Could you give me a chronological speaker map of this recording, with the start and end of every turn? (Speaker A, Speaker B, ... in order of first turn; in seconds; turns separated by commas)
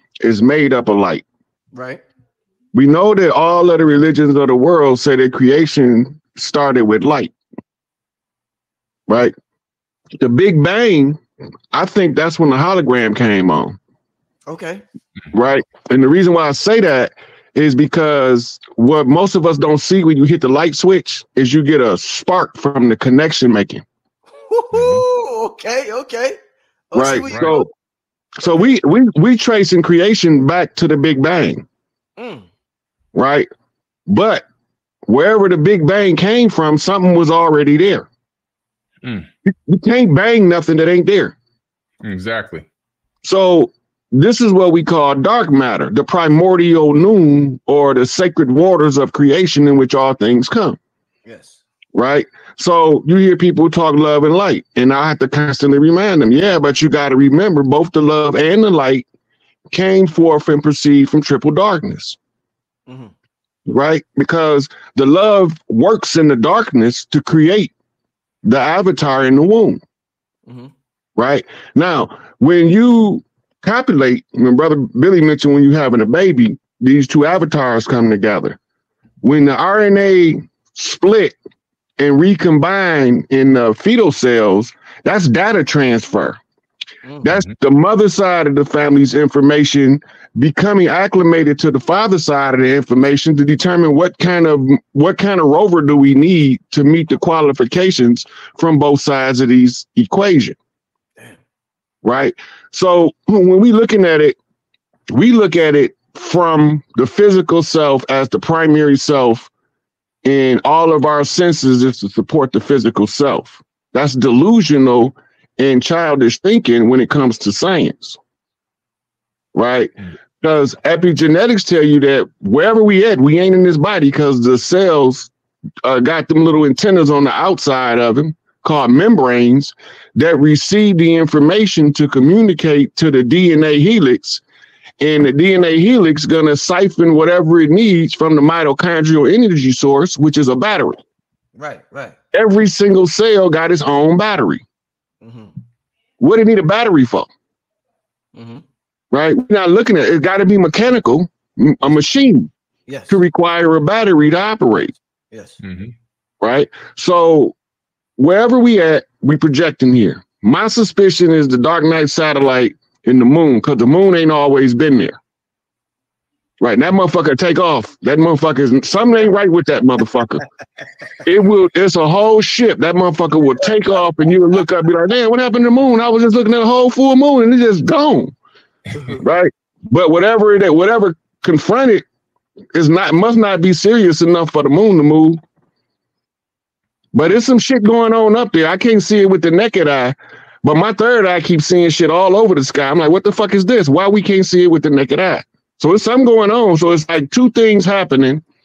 Speaker A: 0.2-1.2, Speaker B: 1.7-2.0, Speaker A: 2.7-7.3, Speaker A: 9.1-9.3, Speaker A: 10.2-11.2, Speaker A: 11.7-13.8, Speaker B: 14.5-14.8, Speaker A: 15.3-23.8, Speaker B: 24.3-26.4, Speaker C: 24.7-25.0, Speaker B: 26.9-27.7, Speaker A: 26.9-27.7, Speaker C: 27.3-27.6, Speaker A: 28.4-31.6, Speaker B: 28.4-28.7, Speaker B: 32.2-32.5, Speaker A: 33.1-33.5, Speaker A: 34.1-34.4, Speaker A: 35.1-38.1, Speaker C: 39.0-39.3, Speaker A: 39.5-41.4, Speaker C: 42.0-42.6, Speaker A: 43.2-50.8, Speaker B: 51.2-51.6, Speaker A: 51.9-59.0, Speaker A: 59.7-62.2, Speaker B: 62.9-63.1, Speaker A: 63.6-67.7, Speaker A: 68.4-69.8, Speaker B: 70.5-70.7, Speaker A: 71.2-78.6, Speaker A: 79.2-81.3, Speaker A: 82.0-86.4, Speaker B: 87.0-87.3, Speaker A: 87.2-100.5, Speaker A: 102.0-104.4, Speaker A: 105.1-109.5, Speaker A: 110.2-118.2, Speaker A: 119.5-125.3, Speaker A: 125.8-134.4, Speaker A: 135.0-141.0, Speaker B: 141.5-142.2, Speaker A: 142.3-144.6, Speaker B: 145.2-145.6, Speaker A: 146.2-147.3, Speaker B: 148.3-148.6, Speaker A: 149.1-152.5, Speaker B: 152.9-153.2, Speaker A: 153.1-154.9, Speaker B: 155.3-155.6, Speaker C: 155.6-155.9, Speaker A: 156.4-157.5, Speaker A: 158.2-165.2, Speaker A: 166.6-170.4, Speaker A: 171.2-178.3, Speaker B: 178.9-179.2, Speaker A: 179.1-182.0, Speaker A: 182.7-185.4, Speaker A: 187.1-198.4